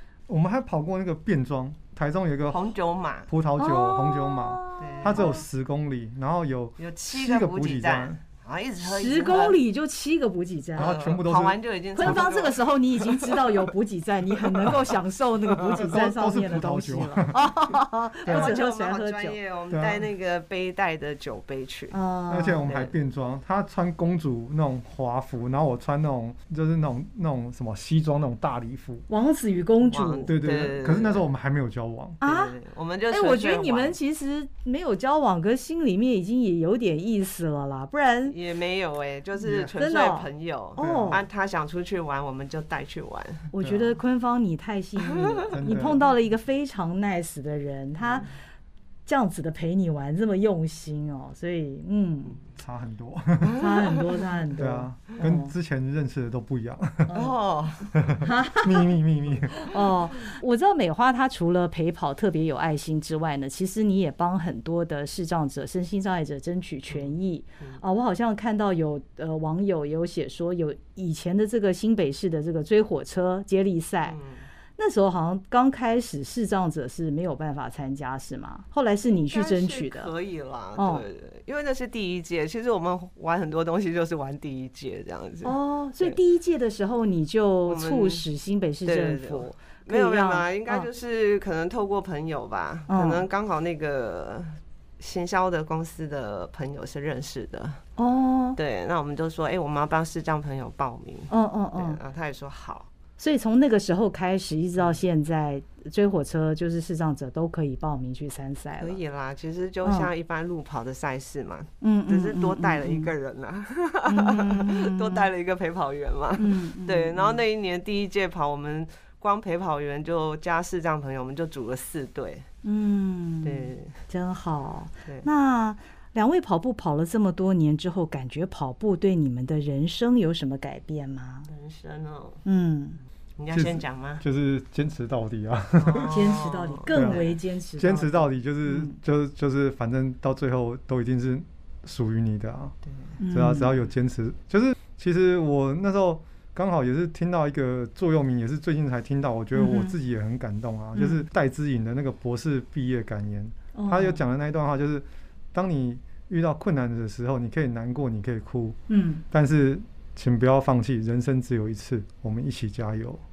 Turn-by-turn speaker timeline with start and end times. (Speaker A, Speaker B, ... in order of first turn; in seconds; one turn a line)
Speaker A: 0.3-2.7
Speaker B: 2.5-3.3
Speaker A: 3.3-8.2
Speaker C: 3.6-5.4
Speaker B: 4.8-5.4
Speaker B: 6.8-9.6
Speaker C: 8.8-10.9
Speaker A: 10.8-12.3
Speaker B: 10.8-13.6
Speaker C: 11.9-19.4
Speaker A: 15.7-17.4
Speaker A: 18.2-18.6
Speaker B: 18.3-21.9
Speaker A: 19.7-20.1
Speaker C: 21.9-22.6
Speaker A: 22.3-29.1
Speaker B: 22.6-22.9
Speaker C: 29.1-30.3
Speaker B: 29.9-31.2
Speaker A: 30.3-32.2
Speaker C: 32.2-32.5
Speaker B: 32.2-34.0
Speaker C: 33.1-38.4
Speaker B: 38.3-43.5
Speaker A: 39.4-39.7
Speaker C: 39.7-41.2
Speaker A: 40.8-41.2
Speaker C: 43.5-48.3
Speaker A: 43.6-44.0
Speaker B: 45.0-45.6
Speaker A: 45.5-46.0
Speaker B: 48.0-48.3
Speaker C: 49.0-52.4
Speaker A: 52.5-53.6
Speaker C: 53.5-55.5
Speaker B: 53.6-54.0
Speaker A: 54.5-57.1
Speaker C: 57.1-57.4
Speaker B: 57.1-57.9
Speaker A: 57.9-59.7
Speaker C: 58.2-58.9
Speaker C: 59.6-74.2
Speaker B: 66.9-67.8
Speaker B: 74.0-74.5
Speaker C: 74.8-80.1
Speaker B: 79.3-86.2
Speaker C: 80.8-81.0
Speaker C: 85.4-90.9
Speaker B: 87.7-88.2
Speaker B: 88.8-97.8
Speaker C: 92.9-93.3
Speaker C: 98.0-98.6
Speaker B: 98.5-102.9
Speaker C: 101.3-102.0
Speaker C: 103.2-109.0
Speaker B: 108.8-122.5
Speaker C: 109.8-110.1
Speaker C: 111.8-113.1
Speaker C: 114.0-115.3
Speaker C: 116.4-117.4
Speaker C: 122.6-131.5
Speaker B: 123.4-124.0
Speaker B: 131.5-132.4
Speaker C: 132.4-133.0
Speaker B: 133.4-134.2
Speaker A: 133.5-136.1
Speaker B: 135.8-137.4
Speaker C: 135.8-139.0
Speaker A: 136.9-137.3
Speaker A: 137.8-142.7
Speaker B: 142.8-143.2
Speaker C: 143.2-143.7
Speaker A: 143.3-158.8
Speaker C: 149.5-149.9
Speaker C: 150.9-151.2
Speaker C: 153.7-154.2
Speaker C: 158.9-159.2
Speaker A: 159.3-163.2